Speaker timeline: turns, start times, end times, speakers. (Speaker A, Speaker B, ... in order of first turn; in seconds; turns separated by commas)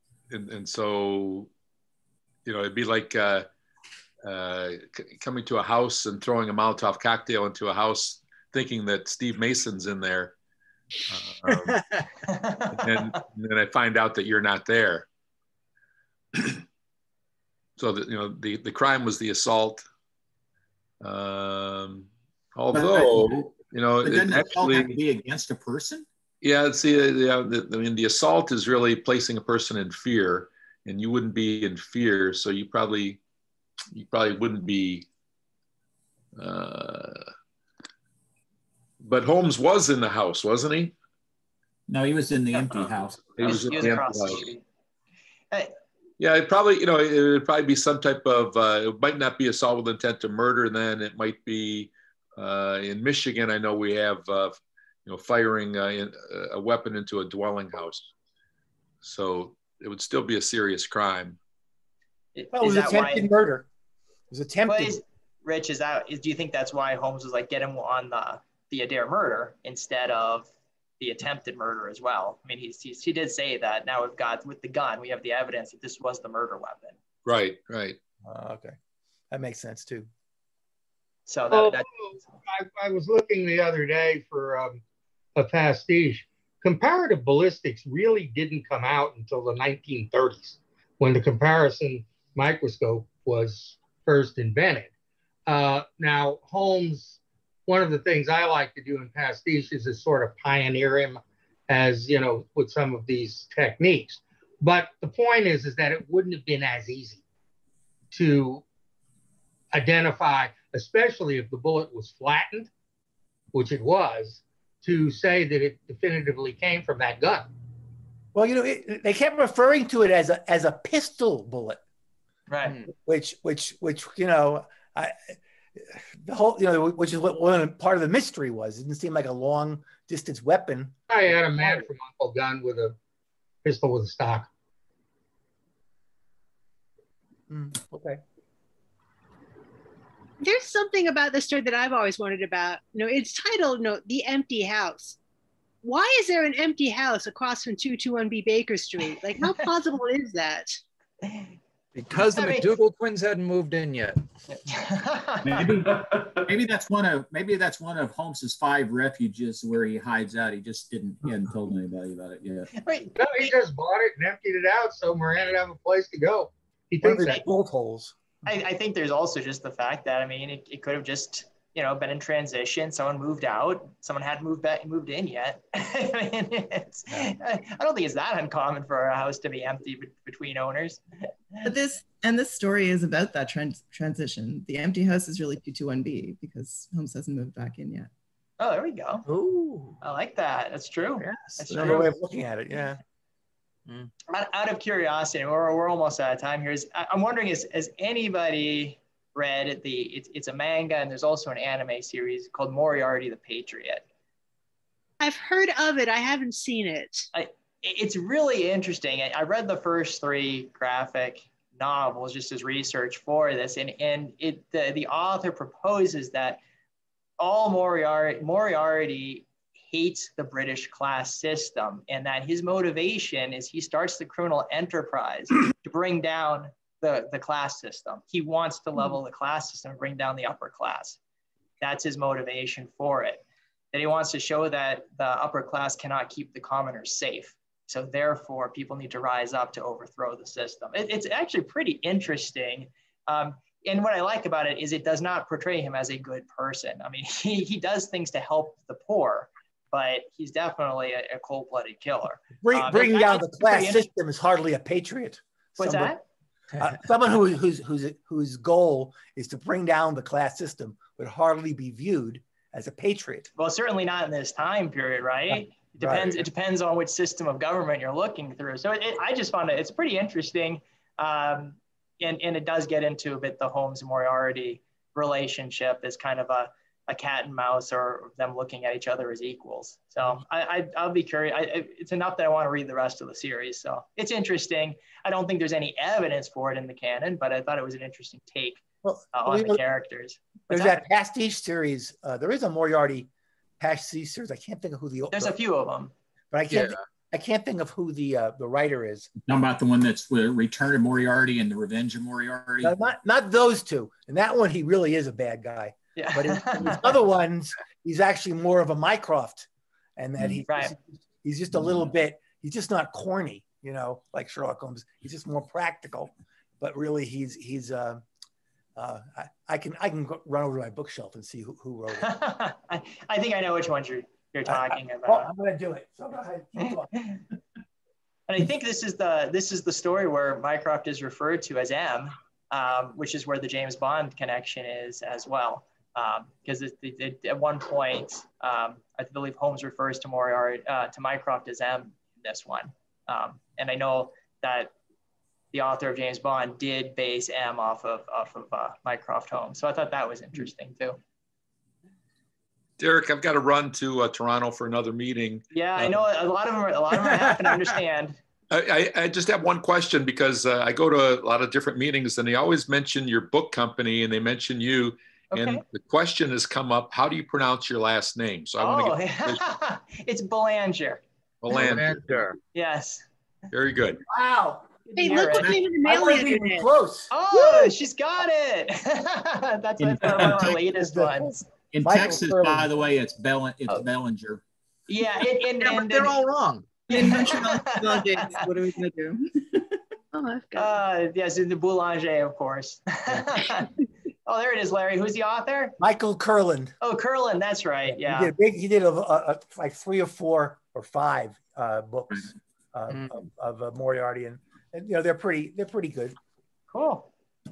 Speaker A: 0.3-1.5, Speaker A: 2.5-3.5, Speaker A: 4.2-10.3, Speaker A: 11.1-11.8, Speaker B: 11.8-12.1, Speaker C: 12.2-13.2, Speaker A: 12.8-15.1, Speaker A: 17.8-19.9, Speaker A: 21.0-25.0, Speaker D: 22.7-26.1, Speaker A: 26.4-33.2, Speaker A: 33.9-35.1, Speaker A: 36.4-37.3, Speaker A: 39.0-41.0, Speaker D: 41.9-43.4, Speaker C: 42.5-42.8, Speaker A: 43.4-44.5, Speaker C: 43.4-44.6, Speaker A: 46.2-58.1, Speaker A: 59.0-61.4, Speaker C: 62.4-63.3, Speaker E: 62.5-63.7, Speaker E: 64.3-65.0, Speaker C: 64.7-77.0, Speaker A: 77.2-78.0, Speaker E: 78.2-78.8, Speaker E: 79.3-80.1, Speaker C: 81.3-82.3, Speaker F: 81.5-84.8, Speaker F: 85.3-94.9, Speaker F: 95.5-107.2, Speaker F: 108.1-108.7, Speaker F: 109.7-112.7, Speaker F: 113.5-117.5, Speaker E: 118.3-121.8, Speaker C: 122.5-122.8, Speaker E: 122.9-131.0, Speaker F: 131.1-133.0, Speaker F: 133.6-134.5, Speaker E: 137.5-138.2, Speaker G: 140.4-145.2, Speaker G: 145.8-150.8, Speaker C: 151.2-151.6, Speaker B: 151.9-154.2, Speaker C: 152.3-152.8, Speaker C: 154.5-155.8, Speaker D: 155.4-162.7, Speaker C: 162.8-163.5, Speaker F: 163.2-167.4, Speaker E: 167.0-168.2, Speaker C: 168.4-181.0, Speaker H: 181.6-188.1, Speaker C: 188.6-189.3, Speaker B: 189.3-189.9, Speaker C: 190.0-192.1, Speaker E: 191.2-193.0, Speaker C: 194.3-204.0, Speaker G: 205.2-207.3, Speaker C: 207.3-216.6, Speaker C: 217.4-231.2, Speaker C: 231.8-254.1, Speaker E: 252.6-256.1, Speaker C: 255.8-256.2, Speaker E: 256.8-263.5, Speaker C: 263.6-291.0, Speaker E: 265.5-266.4, Speaker E: 289.0-289.8, Speaker E: 290.7-293.3, Speaker E: 293.8-295.6, Speaker C: 295.3-296.1, Speaker E: 296.5-299.4, Speaker B: 296.7-297.0, Speaker D: 299.5-302.9, Speaker E: 302.8-318.2, Speaker C: 306.2-307.2, Speaker C: 310.7-311.0, Speaker E: 319.0-322.3, Speaker C: 322.1-325.5, Speaker E: 324.7-327.2, Speaker C: 328.5-344.9, Speaker C: 345.7-351.2, Speaker A: 353.0-356.2, Speaker C: 355.7-358.4, Speaker A: 358.7-369.6, Speaker C: 365.5-365.8, Speaker C: 368.8-371.2, Speaker A: 371.6-372.3, Speaker F: 371.8-372.2, Speaker B: 371.8-372.6, Speaker C: 372.7-373.3, Speaker A: 373.7-374.2, Speaker E: 374.3-374.9, Speaker C: 375.1-375.8, Speaker G: 375.2-376.9, Speaker E: 375.6-377.3, Speaker C: 377.3-381.7, Speaker D: 380.0-380.8, Speaker E: 381.0-382.9, Speaker D: 381.9-384.6, Speaker C: 385.1-386.4, Speaker B: 385.8-388.6, Speaker C: 387.1-388.6, Speaker H: 387.1-391.0, Speaker C: 390.8-393.9, Speaker C: 394.5-396.0, Speaker E: 396.0-396.9, Speaker C: 397.0-398.5, Speaker E: 398.1-406.4, Speaker B: 403.1-403.4, Speaker C: 406.9-407.3